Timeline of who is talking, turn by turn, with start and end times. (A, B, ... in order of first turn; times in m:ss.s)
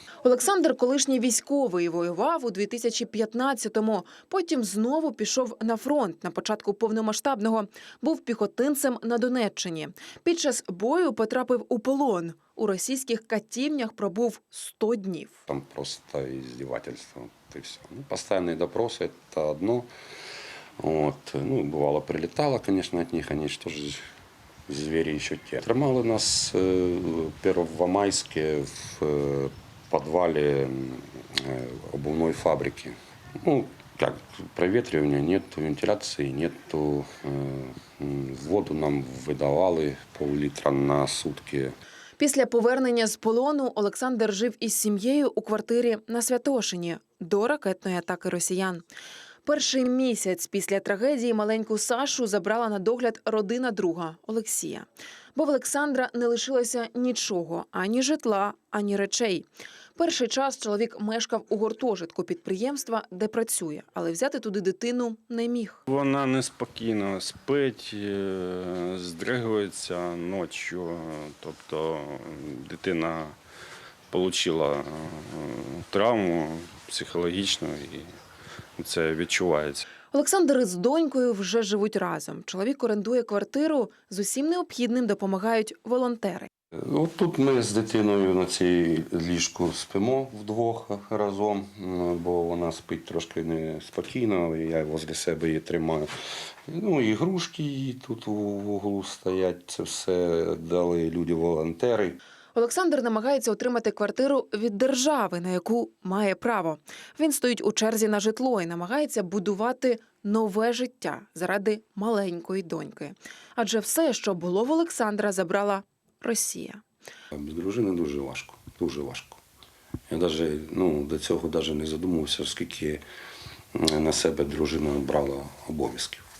0:00.2-0:15.4 A
0:15.5-0:19.9 B
0:20.8-0:24.0 B
0:24.7-0:41.8 B
0:42.2-0:48.9 A
0:49.4-1:05.8 A
1:05.9-1:13.4 C
1:14.1-1:18.1 C
1:18.8-1:19.8 C
1:20.1-1:26.5 A
1:26.7-1:36.1 B
1:36.7-1:42.2 B
1:42.5-1:56.8 A
1:57.3-1:59.4 B
2:00.1-2:03.0 B
2:03.7-2:06.2 B